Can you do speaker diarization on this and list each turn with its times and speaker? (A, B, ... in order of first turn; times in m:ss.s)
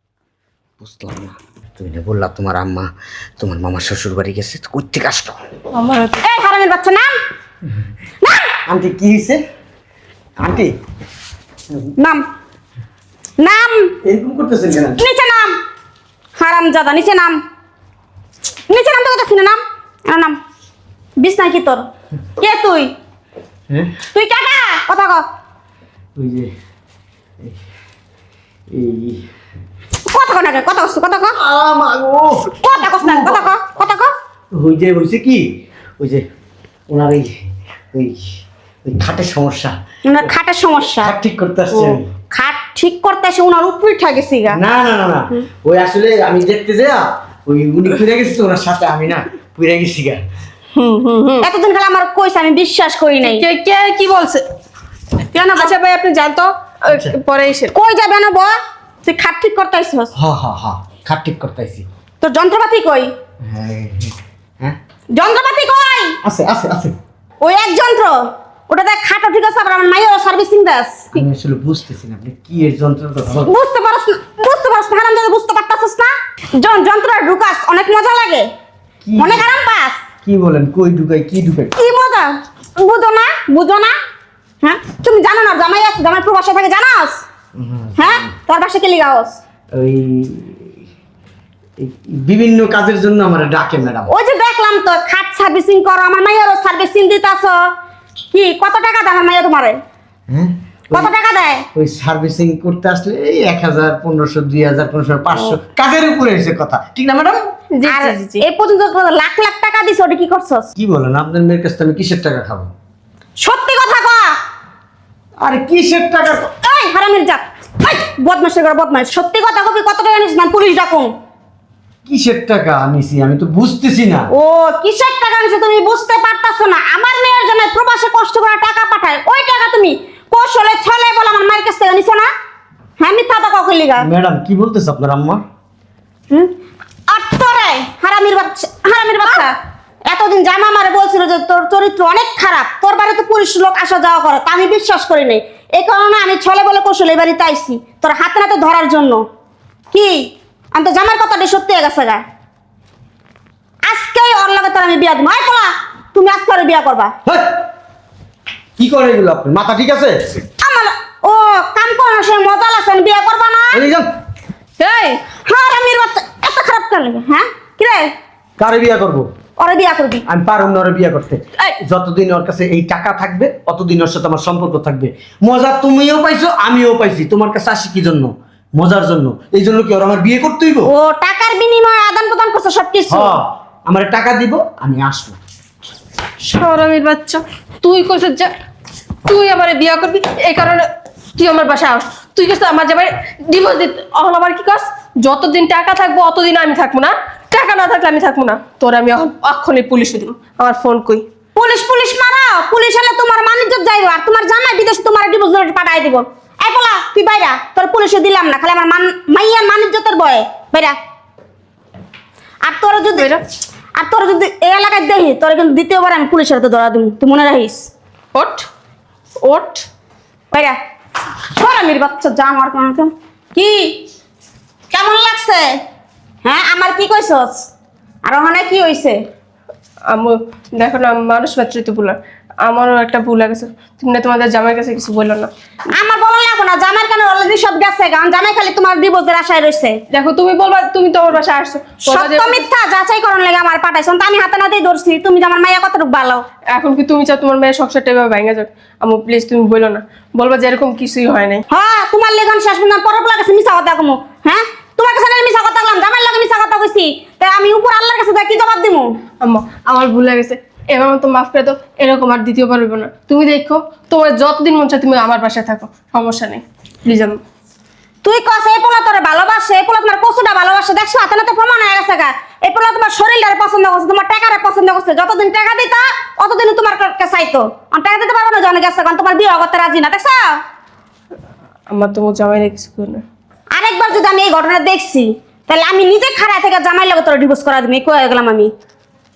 0:00.8-0:05.4 A
0:05.7-0:06.2 B
0:06.2-0:07.2 C
0:08.2-0:08.5 C
0:08.7-0:09.4 A
0:10.4-0:10.7 A
0:12.0-0:12.2 C
0:13.4-0:13.9 C
0:14.0-0:15.0 A
0:15.0-0:15.6 C
0:16.4-0:17.4 C
0:18.7-0:20.4 C
0:21.2-0:21.8 C
0:22.4-0:22.9 C
0:23.7-0:24.0 A
0:24.1-0:25.2 C
0:26.2-0:26.5 A
0:28.7-0:29.2 A
0:30.1-0:31.4 C
0:31.4-0:33.5 A
0:32.6-0:34.1 C
0:34.5-0:35.4 A
0:36.9-0:37.4 A
0:37.9-0:38.3 A
0:38.8-0:40.3 A
0:40.0-0:41.1 C
0:41.0-0:42.1 A
0:42.3-0:44.6 C
0:44.5-0:50.2 A
0:50.7-0:51.5 B
0:51.4-0:53.4 C
0:53.2-0:54.4 B
0:55.3-0:55.8 C
0:55.5-0:57.7 B
0:56.9-0:57.1 A
0:57.7-1:00.1 C
1:00.1-1:01.8 A
1:02.2-1:03.1 C
1:03.4-1:04.8 A
1:05.1-1:06.2 C
1:06.2-1:06.9 A
1:07.4-1:08.2 C
1:08.7-1:11.2 C
1:11.1-1:13.5 A
1:13.4-1:18.5 C
1:19.0-1:19.5 A
1:19.2-1:20.0 C
1:20.2-1:21.7 A
1:21.8-1:23.9 C
1:24.6-1:27.2 C
1:27.5-1:28.3 A
1:28.0-1:29.4 C
1:29.7-1:30.8 A
1:31.8-1:34.1 A
1:34.1-1:37.6 C
1:38.3-1:39.8 C
1:40.3-1:41.1 A
1:40.9-1:41.6 C
1:41.7-1:47.5 A
1:47.2-1:50.7 C
1:47.7-1:48.4 B
1:50.8-1:52.7 A
1:53.4-1:54.4 C
1:55.4-1:56.5 A
1:56.5-2:01.1 C
2:02.0-2:04.3 A
2:04.3-2:12.3 C
2:13.0-2:14.0 C
2:14.0-2:15.4 A
2:17.1-2:19.6 C
2:20.1-2:29.2 C
2:29.9-2:32.2 C
2:33.8-2:37.1 C
2:37.2-2:37.6 A
2:38.8-2:40.2 A
2:40.6-2:43.8 C
2:43.7-2:44.1 A
2:44.8-2:45.2 B
2:45.4-2:48.1 C
2:48.6-2:49.2 A
2:49.6-2:50.2 C
2:50.3-3:00.9 A
3:00.8-3:03.4 C
3:03.1-3:05.4 A
3:06.4-3:08.5 B
3:09.2-3:21.2 B
3:21.5-3:31.0 C
3:32.6-3:33.3 C
3:33.2-3:33.4 B
3:34.0-3:37.9 C
3:38.3-3:38.7 B
3:39.4-3:39.9 B
3:40.5-3:40.8 C
3:41.3-3:44.0 C
3:44.9-3:45.7 C
3:46.4-3:47.7 C
3:48.2-3:49.2 C
3:50.1-3:55.5 B
3:55.9-4:00.0 C
4:00.1-4:02.6 B
4:02.1-4:06.4 C
4:06.7-4:11.6 B
4:11.7-4:19.1 C
4:19.4-4:27.4 B
4:28.2-4:40.6 C
4:41.9-4:43.2 B
4:43.7-4:48.7 C